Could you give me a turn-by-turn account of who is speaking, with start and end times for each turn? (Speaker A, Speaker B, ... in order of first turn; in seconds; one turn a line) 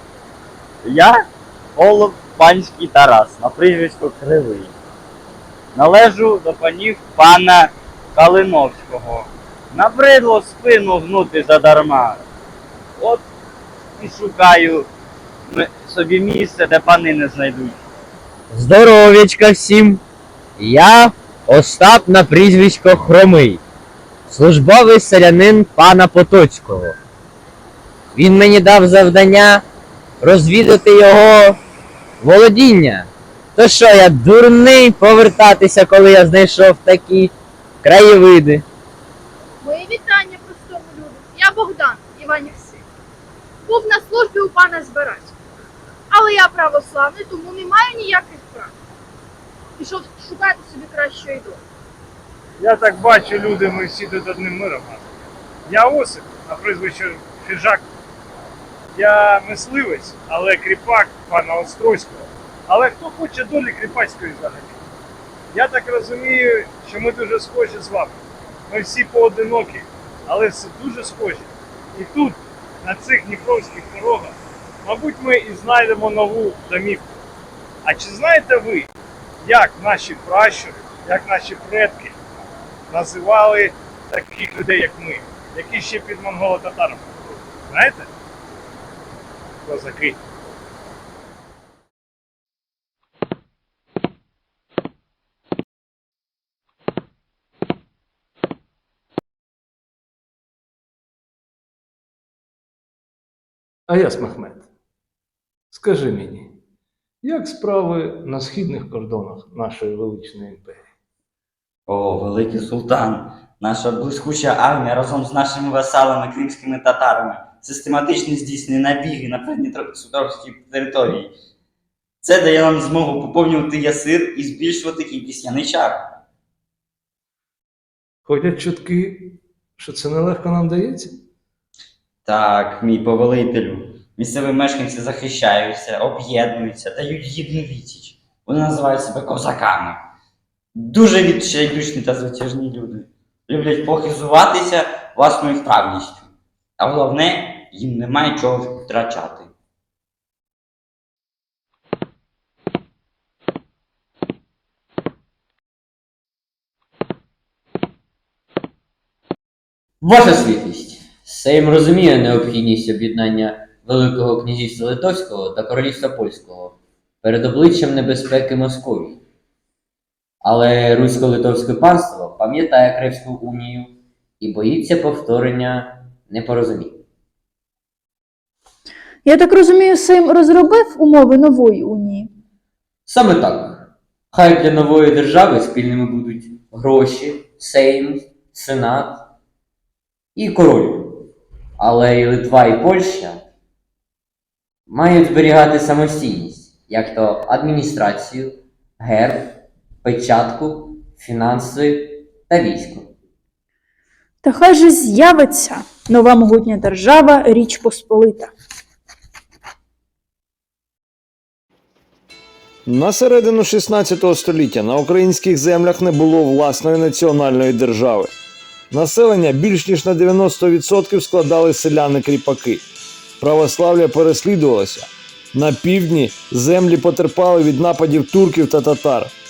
Speaker A: 0.8-1.2
Speaker A: 1.8-4.7
Speaker A: 5.8-12.2
Speaker A: 13.0-13.2
Speaker A: 14.0-14.9
Speaker A: 15.5-17.8
Speaker B: 18.5-20.0
Speaker B: 20.6-23.6
Speaker B: 24.3-26.9
Speaker B: 28.2-29.6
Speaker B: 30.2-31.5
Speaker B: 32.2-33.1
Speaker B: 33.6-37.3
Speaker B: 37.8-38.6
Speaker C: 39.6-42.8
Speaker C: 43.7-45.3
Speaker C: 46.1-48.7
Speaker C: 49.8-51.6
Speaker D: 52.6-55.1
Speaker D: 55.7-57.8
Speaker D: 59.0-64.8
Speaker D: 65.5-68.2
Speaker D: 68.7-77.1
Speaker D: 77.8-78.9
Speaker D: 79.5-82.2
Speaker D: 82.9-87.0
Speaker D: 87.7-88.1
Speaker D: 89.7-90.2
Speaker E: 103.9-104.5
Speaker E: 105.7-106.5
Speaker E: 107.2-110.8
Speaker A: 111.9-121.3
Speaker A: 122.2-126.0
Speaker A: 132.2-140.0
Speaker A: 140.8-149.5
Speaker B: 160.0-169.2
Speaker B: 170.4-177.0
Speaker F: 179.3-182.3
Speaker B: 183.1-189.3
Speaker B: 190.3-191.3
Speaker B: 191.8-193.4
Speaker B: 194.9-203.1
Speaker F: 204.4-208.5
Speaker G: 212.9-218.3
Speaker G: 218.9-222.8
Speaker G: 223.4-229.3